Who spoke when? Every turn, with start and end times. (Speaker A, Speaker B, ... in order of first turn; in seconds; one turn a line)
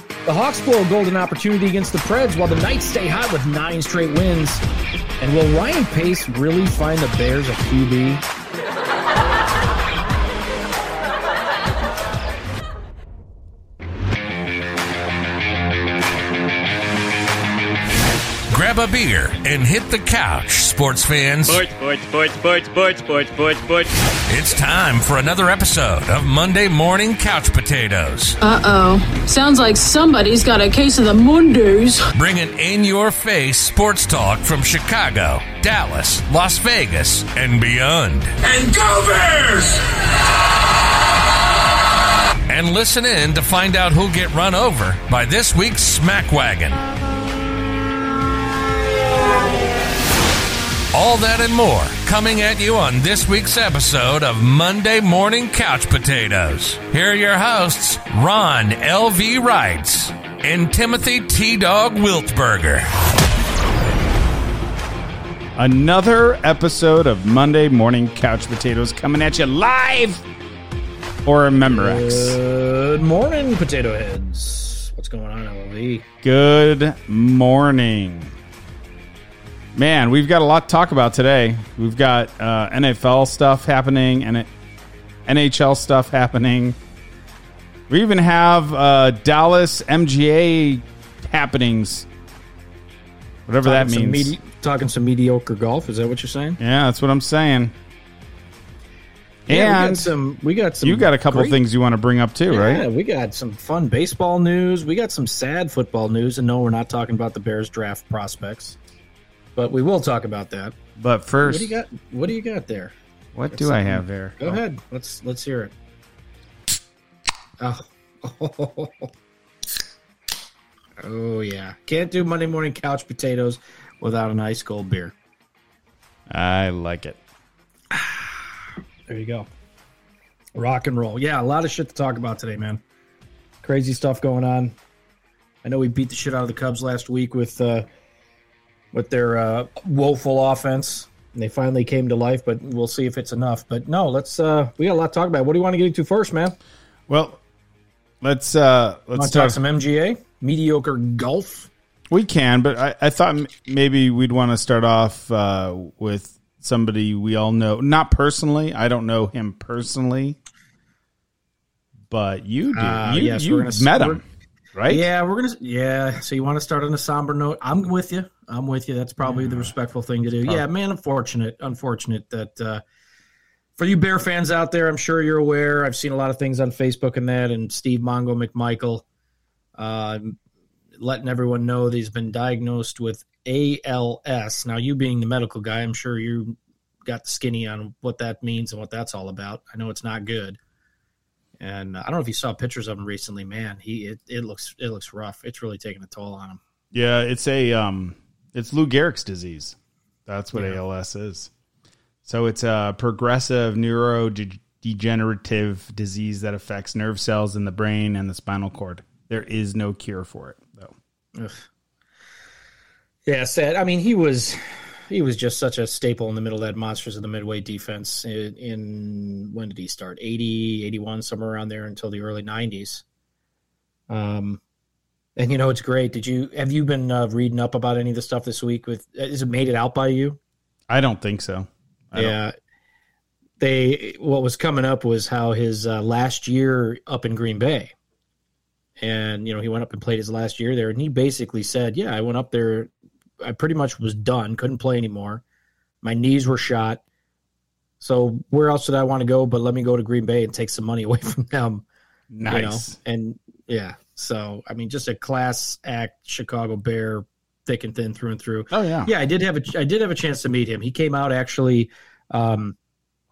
Speaker A: 0.2-4.6
Speaker A: 5.2-8.2
Speaker B: 18.5-21.6
Speaker C: 21.4-23.9
Speaker B: 24.3-28.4
Speaker D: 28.4-32.1
Speaker B: 32.1-39.8
Speaker B: 42.5-46.8
Speaker B: 50.9-62.9
Speaker E: 65.5-70.2
Speaker E: 71.2-72.4
Speaker A: 71.7-76.0
Speaker E: 76.2-78.3
Speaker E: 79.7-84.5
Speaker E: 85.2-86.8
Speaker E: 87.9-92.1
Speaker E: 93.5-94.3
Speaker A: 93.6-96.6
Speaker E: 96.6-97.7
Speaker E: 99.5-100.1
Speaker A: 99.5-101.6
Speaker E: 100.8-102.8
Speaker A: 102.5-108.8
Speaker A: 109.5-110.8
Speaker E: 111.0-111.8
Speaker A: 111.4-112.9
Speaker E: 113.3-114.6
Speaker A: 113.5-115.7
Speaker A: 117.6-119.1
Speaker A: 121.0-125.1
Speaker E: 126.3-127.2
Speaker A: 127.9-128.4
Speaker A: 129.1-129.5
Speaker A: 130.5-132.8
Speaker A: 133.6-134.7
Speaker A: 135.6-137.9
Speaker A: 138.9-146.6
Speaker E: 147.1-147.4
Speaker E: 148.2-149.6
Speaker A: 149.1-151.7
Speaker E: 152.1-160.4
Speaker E: 162.1-164.2
Speaker A: 162.7-164.2
Speaker E: 164.7-165.1
Speaker A: 164.9-172.8
Speaker E: 169.2-169.7
Speaker E: 170.2-170.6
Speaker A: 173.8-179.0
Speaker A: 179.8-180.4
Speaker A: 181.0-190.6
Speaker A: 191.6-196.6
Speaker E: 196.9-201.5
Speaker E: 202.2-210.9
Speaker A: 211.3-211.6
Speaker A: 213.2-223.0
Speaker A: 224.1-224.6
Speaker A: 225.3-230.4
Speaker E: 230.9-232.3
Speaker A: 232.1-232.5
Speaker A: 233.6-237.9
Speaker A: 239.0-242.9
Speaker A: 243.4-245.4
Speaker A: 246.0-247.0
Speaker A: 248.0-251.8
Speaker E: 252.3-252.9
Speaker A: 252.4-262.8
Speaker E: 258.7-259.1